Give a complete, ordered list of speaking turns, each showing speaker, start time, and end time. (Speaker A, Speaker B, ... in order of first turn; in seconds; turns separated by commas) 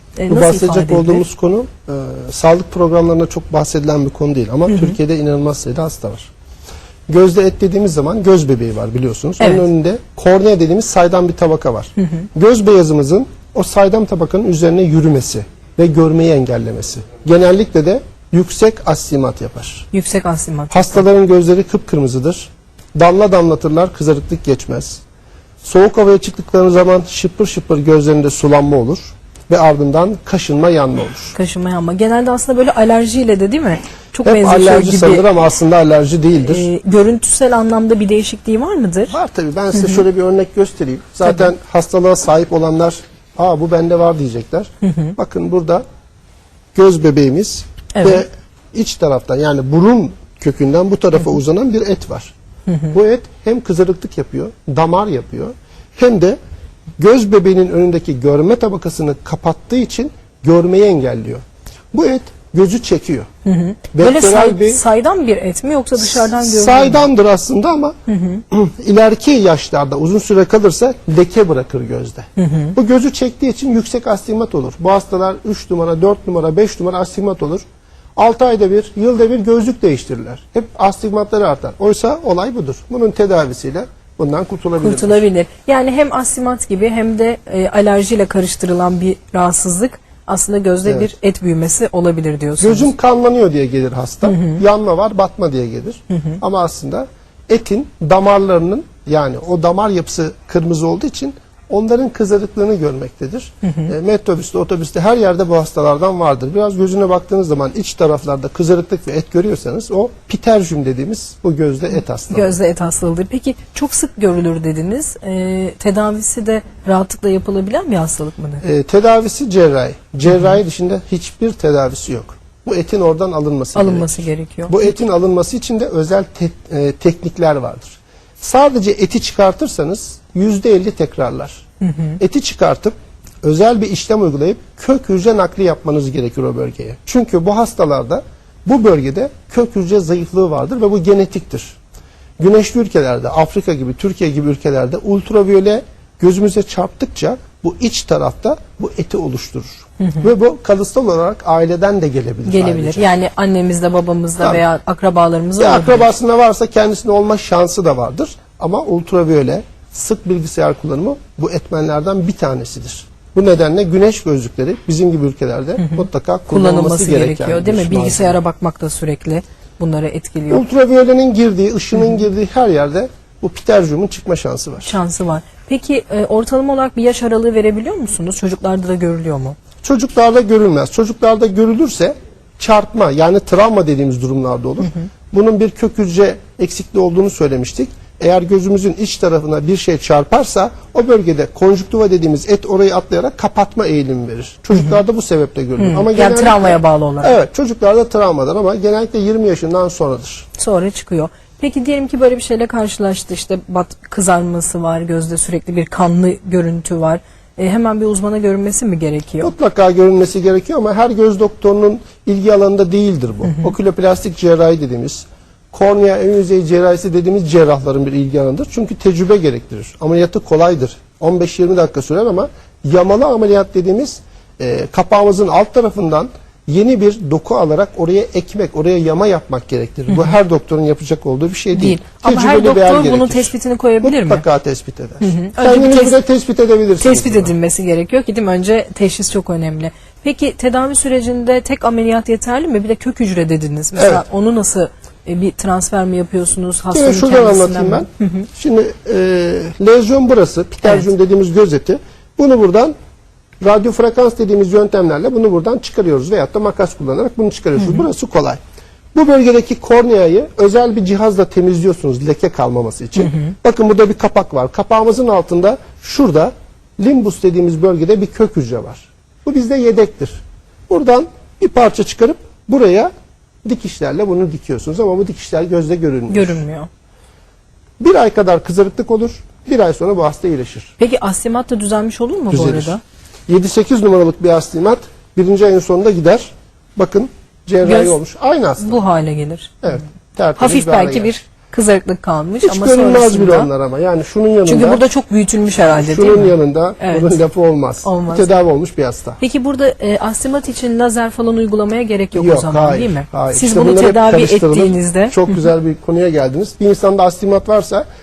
Speaker A: 0.2-1.2, Speaker B: 0.3-6.3, Speaker A: 4.7-5.0, Speaker B: 7.1-19.9, Speaker A: 9.4-9.6, Speaker A: 19.9-21.0, Speaker B: 20.7-25.0, Speaker B: 25.6-31.3, Speaker A: 31.3-35.2, Speaker B: 34.2-36.7, Speaker A: 36.4-39.1, Speaker B: 39.1-45.8, Speaker A: 39.8-40.0, Speaker A: 44.8-45.1, Speaker B: 46.7-52.3, Speaker A: 48.0-48.2, Speaker A: 52.7-52.9, Speaker B: 52.9-56.4, Speaker B: 57.0-63.3, Speaker A: 63.4-67.0, Speaker B: 63.9-64.8, Speaker B: 66.0-68.0, Speaker A: 68.1-68.4, Speaker B: 68.5-77.6, Speaker A: 72.4-72.7, Speaker B: 78.2-85.2, Speaker A: 84.8-92.9, Speaker B: 92.6-112.6, Speaker A: 94.2-94.6, Speaker A: 103.6-103.9, Speaker A: 111.9-118.6, Speaker B: 118.6-131.6, Speaker A: 123.7-125.0, Speaker A: 131.8-132.2, Speaker B: 132.2-141.8, Speaker B: 142.4-153.1, Speaker A: 152.4-156.1, Speaker B: 155.6-168.4, Speaker A: 165.8-170.6, Speaker B: 170.5-174.9, Speaker A: 174.8-179.6, Speaker B: 179.8-200.5, Speaker A: 195.8-197.4, Speaker A: 200.6-209.5, Speaker B: 209.4-237.5, Speaker A: 231.7-234.4, Speaker A: 235.2-236.2, Speaker A: 237.0-248.5, Speaker B: 243.9-244.2, Speaker B: 246.9-252.9, Speaker B: 253.6-258.6, Speaker B: 259.1-273.1, Speaker B: 273.6-276.6, Speaker A: 276.3-276.9, Speaker B: 278.0-280.9, Speaker A: 281.0-283.0, Speaker B: 282.5-282.9, Speaker B: 283.5-289.0, Speaker A: 287.8-288.2, Speaker A: 288.8-290.0, Speaker B: 289.8-291.3, Speaker A: 290.6-293.7, Speaker B: 292.6-295.0, Speaker A: 294.6-297.4, Speaker B: 295.9-299.4, Speaker A: 298.0-298.5, Speaker A: 299.4-305.4, Speaker B: 302.3-308.0